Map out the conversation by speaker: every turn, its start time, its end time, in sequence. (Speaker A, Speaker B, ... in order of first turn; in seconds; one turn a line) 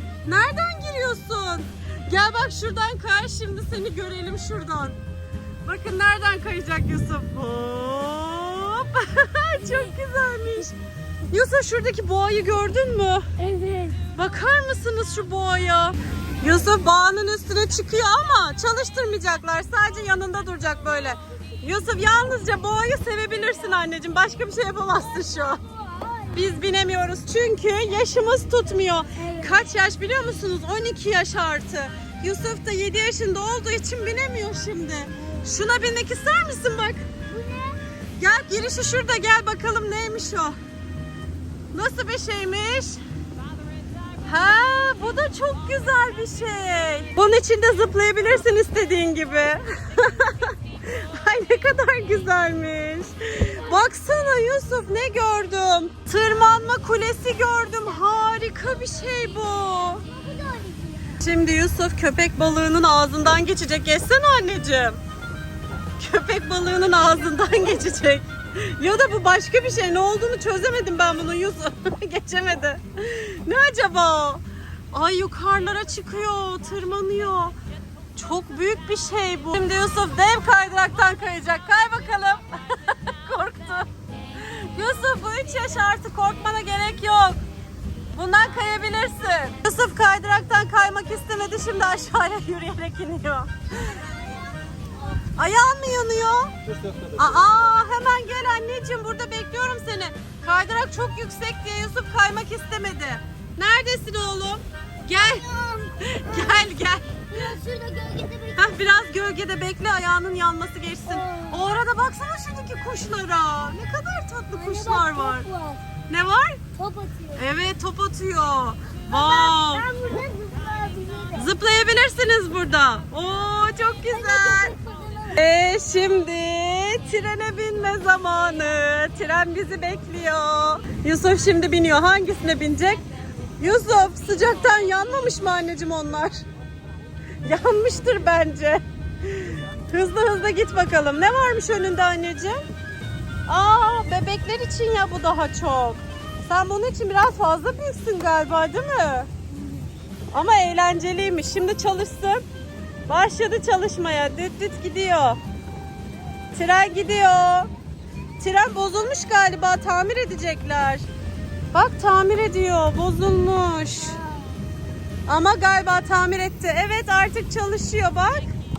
Speaker A: 0.2-5.0
Speaker A: 5.6-10.8
Speaker B: 9.6-9.9
Speaker A: 11.3-13.3
Speaker B: 13.4-14.1
Speaker A: 14.1-25.6
Speaker B: 25.4-26.6
Speaker A: 26.3-37.1
Speaker B: 29.2-29.6
Speaker B: 37.3-37.8
Speaker A: 38.2-40.6
Speaker A: 41.7-43.0
Speaker A: 44.2-60.0
Speaker B: 53.5-53.8
Speaker B: 59.9-61.2
Speaker A: 61.2-65.0
Speaker A: 66.0-77.5
Speaker A: 78.2-87.4
Speaker A: 88.1-93.5
Speaker B: 93.8-95.2
Speaker A: 95.3-96.5
Speaker A: 97.2-105.5
Speaker B: 105.1-108.9
Speaker A: 106.0-107.3
Speaker A: 108.6-115.5
Speaker B: 111.1-111.6
Speaker B: 114.5-115.8
Speaker A: 116.1-116.6
Speaker B: 116.7-117.5
Speaker A: 117.4-119.9
Speaker B: 119.1-121.5
Speaker A: 121.3-124.7
Speaker B: 124.1-125.4
Speaker A: 125.3-133.1
Speaker A: 133.6-136.4
Speaker A: 137.4-142.7
Speaker A: 143.5-149.3
Speaker A: 150.3-152.4
Speaker A: 153.1-155.4
Speaker A: 156.5-157.7
Speaker A: 158.4-161.1
Speaker A: 161.7-164.2
Speaker B: 164.0-164.6
Speaker A: 165.3-168.5